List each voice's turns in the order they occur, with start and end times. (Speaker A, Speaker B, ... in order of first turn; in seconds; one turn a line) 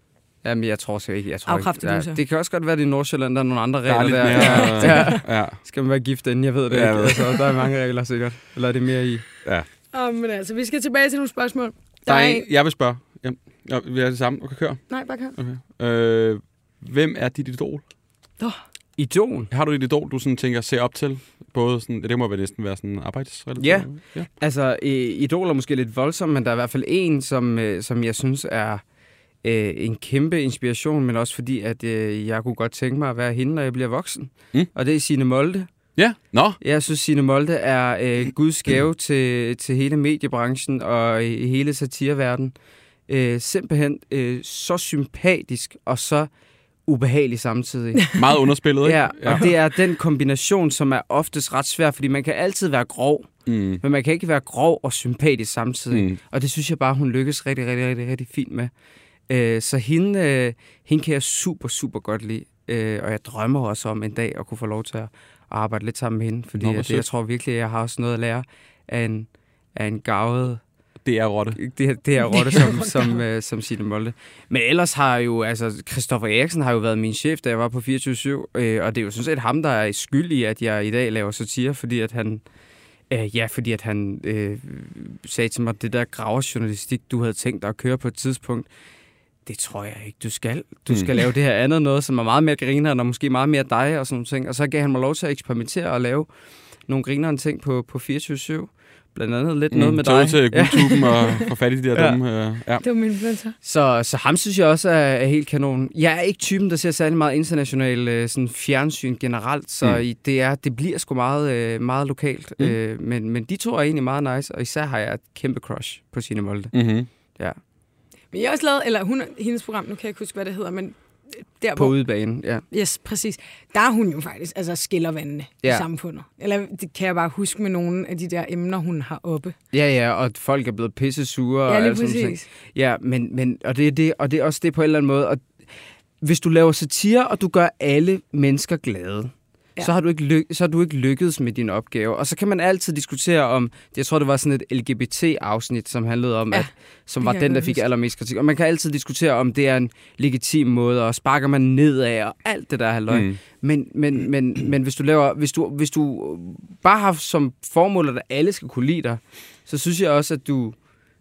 Speaker A: 0.4-9.2
Speaker B: 1.4-2.2
Speaker C: 3.9-5.6
Speaker B: 4.3-5.2
Speaker C: 6.7-7.4
Speaker B: 9.9-12.4
Speaker C: 12.1-17.8
Speaker B: 14.9-15.3
Speaker A: 19.0-19.5
Speaker C: 19.5-24.3
Speaker A: 23.6-28.8
Speaker A: 29.4-35.7
Speaker C: 36.0-36.6
Speaker A: 36.6-42.5
Speaker A: 43.1-46.3
Speaker A: 46.9-48.2
Speaker C: 48.1-49.5
Speaker A: 48.8-58.7
Speaker C: 53.5-53.8
Speaker C: 55.9-56.2
Speaker A: 59.3-70.6
Speaker C: 66.6-67.0
Speaker C: 71.0-71.6
Speaker A: 71.5-82.4
Speaker B: 72.3-73.2
Speaker A: 83.1-88.7
Speaker A: 89.5-96.3
Speaker A: 96.9-101.2
Speaker C: 99.7-102.8
Speaker A: 101.9-102.2
Speaker B: 102.8-103.5
Speaker A: 103.6-116.8
Speaker C: 116.7-117.1
Speaker B: 118.3-122.0
Speaker A: 121.8-122.6
Speaker B: 122.7-129.5
Speaker A: 129.7-135.6
Speaker B: 131.7-132.4
Speaker A: 136.2-160.8
Speaker B: 147.2-147.8
Speaker C: 153.1-153.4